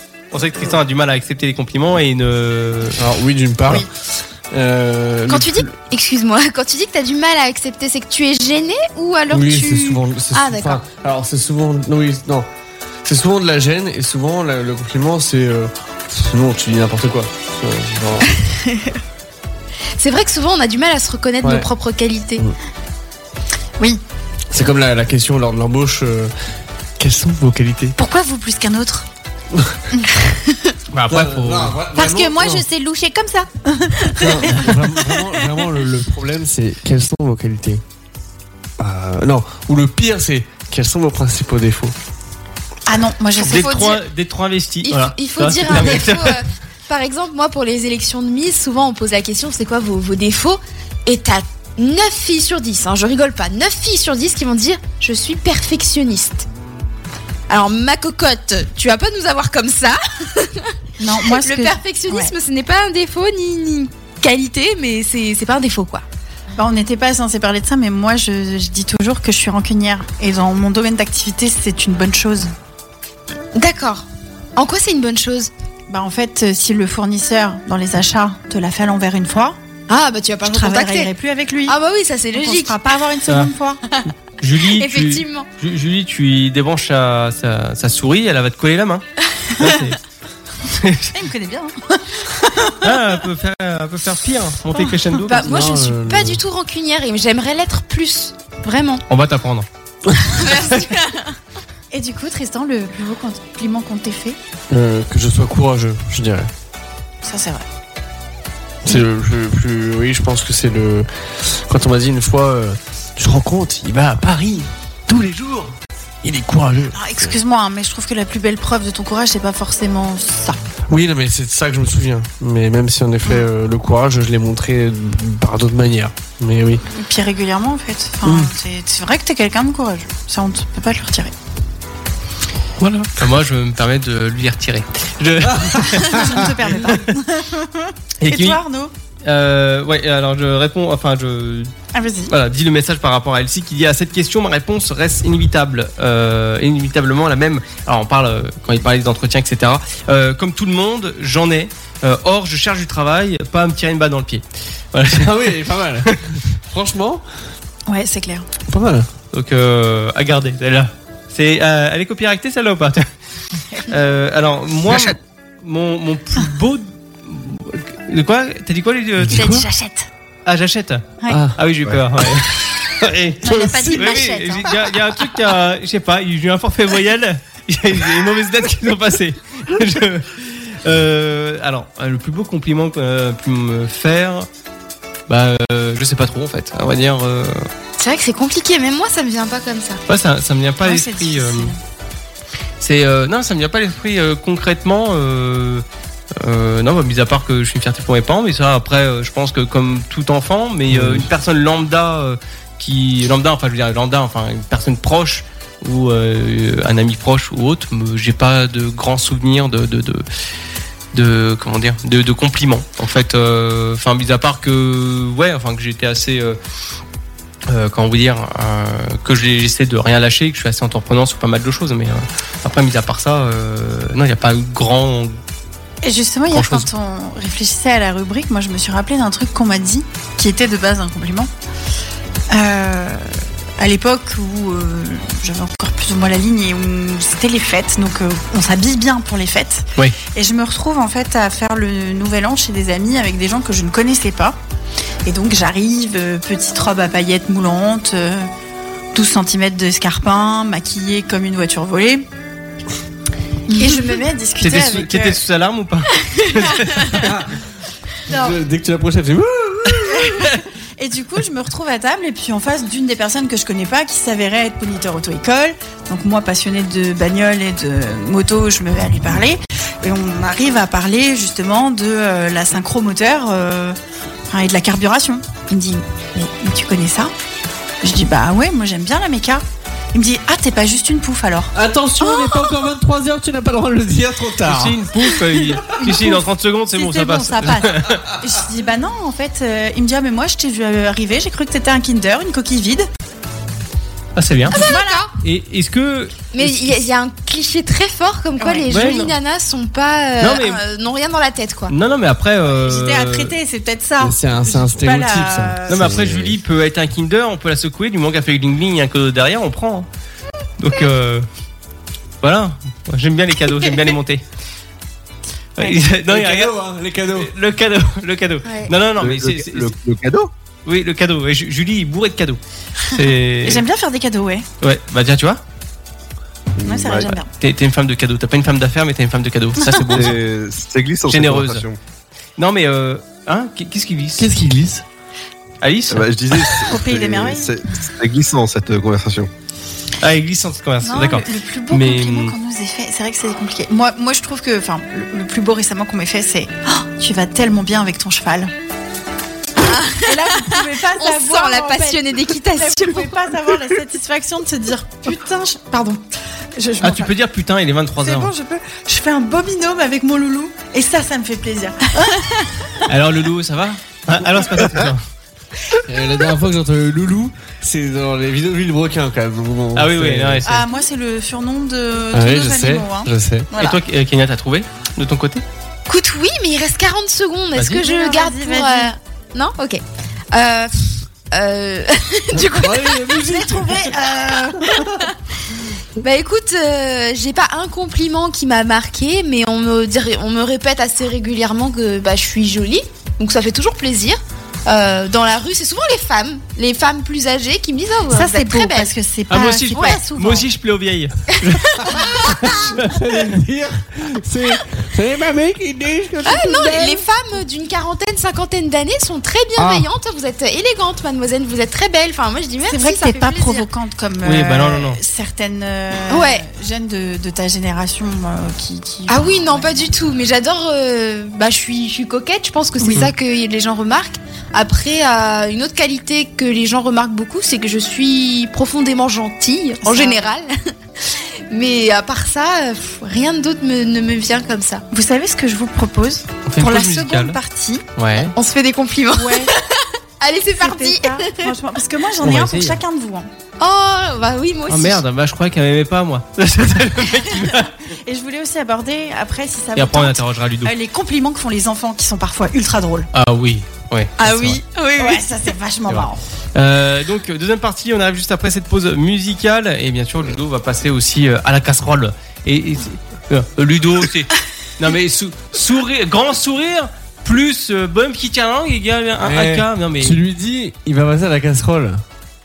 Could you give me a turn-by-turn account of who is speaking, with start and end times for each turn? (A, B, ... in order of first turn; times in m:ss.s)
0:00.3-0:03.0 A
0:03.0-0:05.7 B
0:05.3-0:10.8 C
0:09.3-0:12.5 B
0:13.0-0:18.3 B
0:20.0-0:22.4 C
0:21.4-0:21.7 B
0:24.5-0:26.3 B
0:27.0-0:28.0 B
0:28.0-0:29.1 D
0:29.9-0:30.8 D
0:30.9-0:31.8 A
0:31.1-0:32.6 B
0:32.0-0:35.2 D
0:34.0-0:37.8 B
0:38.8-0:42.0 B
0:42.9-0:43.7 D
0:43.4-0:44.0 C
0:43.4-0:46.4 A
0:44.8-0:56.5 C
0:57.5-1:00.8 C
1:01.0-1:02.3 D
1:01.3-1:06.0 C
1:06.6-1:12.5 D
1:13.6-1:15.5 C
1:15.9-1:19.6 D
1:19.9-1:21.1 C
1:20.4-1:21.8 D
1:21.7-1:22.8 C
1:22.3-1:23.8 D
1:24.4-1:29.0 A
1:24.8-1:25.5 C
1:29.4-1:29.8 C
1:29.6-1:30.0 A
1:30.7-1:31.1 A
1:31.1-1:32.8 D
1:32.8-1:35.5 A
1:35.3-1:39.0 C
1:35.4-1:36.4 B
1:39.1-1:39.7 A
1:40.3-1:41.2 C
1:41.9-1:44.4 D
1:44.7-1:46.5 B
1:47.2-1:47.6 D
1:48.8-1:57.4 B
1:56.9-2:00.6 D
2:00.9-2:06.8 B
2:06.9-2:11.3 D
2:08.2-2:08.5 B
2:12.8-2:13.1 B
2:13.2-2:17.0 A
2:15.5-2:15.8 B
2:16.0-2:18.9 D
2:18.2-2:18.6 A
2:19.2-2:21.7 A
2:21.9-2:22.3 D
2:22.3-2:35.3 A
2:35.1-2:37.2 B
2:37.9-2:38.5 D
2:38.7-2:39.1 B
2:39.3-2:43.1 A
2:43.9-2:49.5 A
2:49.2-2:49.7 B
2:49.3-2:50.1 D
2:50.5-3:04.5 A
2:51.3-2:51.6 B
2:53.4-2:54.8 D
2:53.4-2:54.2 B
3:05.3-3:07.6 A
3:08.0-3:10.0 C
3:10.1-3:11.7 A
3:10.8-3:11.8 D
3:12.8-3:15.8 A
3:16.4-3:30.2 A
3:20.9-3:21.3 B
3:31.1-3:36.6 A
3:37.7-3:45.4 A
3:46.0-3:51.5 D
3:46.5-3:46.9 A
3:52.5-4:04.6 D
4:05.3-4:08.5 D
4:09.1-4:12.3 D
4:13.7-4:15.4 D
4:13.8-4:14.2 C
4:14.6-4:17.4 A
4:17.1-4:17.5 B
4:18.3-4:18.6 D
4:18.3-4:20.4 B
4:20.1-4:34.0 D
4:34.5-4:37.3 D
4:38.0-4:41.7 D
4:41.7-4:45.0 B
4:44.7-4:48.2 A
4:46.0-4:53.1 D
4:54.4-4:54.8 A
4:54.7-4:55.3 C
4:54.7-4:55.3 D
4:55.4-4:57.0 A
4:56.5-5:01.9 C
4:58.6-4:58.9 D
4:58.9-4:59.4 A
5:00.4-5:00.8 A
5:01.9-5:03.5 A
5:02.7-5:06.1 D
5:04.2-5:06.6 B
5:05.9-5:10.1 A
5:10.8-5:11.5 A
5:12.4-5:14.4 A
5:15.8-5:16.8 A
5:16.3-5:17.5 B
5:17.3-5:19.9 A
5:18.7-5:18.9 C
5:19.2-5:20.5 E
5:20.9-5:23.8 A
5:23.6-5:24.7 D
5:24.8-5:25.6 A
5:26.8-5:27.3 E
5:26.8-5:27.5 D
5:27.5-5:30.4 A
5:30.1-5:32.0 E
5:31.3-5:31.8 A
5:32.6-5:34.5 A
5:34.4-5:35.0 B
5:35.8-5:36.3 A
5:36.1-5:39.5 E
5:36.8-5:37.7 D
5:40.2-5:42.5 A
5:41.0-5:48.7 D
5:49.8-5:53.4 C
5:50.2-5:56.2 D
5:56.8-5:57.3 D
5:57.0-5:58.5 A
5:58.2-6:02.5 D
6:03.1-6:05.2 A
6:06.1-6:10.6 B
6:10.0-6:10.9 A
6:10.6-6:14.0 D
6:12.3-6:13.7 B
6:13.8-6:15.6 A
6:16.1-6:23.4 C
6:17.8-6:18.0 A
6:18.0-6:19.1 D
6:22.5-6:25.2 B
6:23.5-6:25.0 D
6:26.2-6:39.1 C
6:38.3-6:40.6 D
6:39.5-6:43.1 A
6:39.9-6:40.2 C
6:41.7-6:42.2 C
6:42.7-6:47.2 B
6:46.4-6:53.9 C
6:46.8-6:47.1 D
6:49.8-6:50.1 B
6:52.9-7:00.1 D
6:54.4-6:55.2 A
6:56.3-6:56.6 C
6:59.3-7:10.7 C
7:03.0-7:03.3 D
7:10.0-7:10.5 D
7:11.2-7:15.0 C
7:15.1-7:18.0 D
7:16.7-7:17.6 A
7:18.2-7:18.5 A
7:18.6-7:21.7 C
7:19.3-7:19.7 D
7:20.8-7:23.5 D
7:22.4-7:23.0 A
7:23.8-7:25.2 C
7:24.9-7:27.9 A
7:28.2-7:33.3 D
7:30.0-7:30.9 A
7:33.3-7:34.8 A
7:34.4-7:35.5 C
7:34.4-7:36.4 D
7:36.1-7:50.4 A
7:49.4-7:52.2 B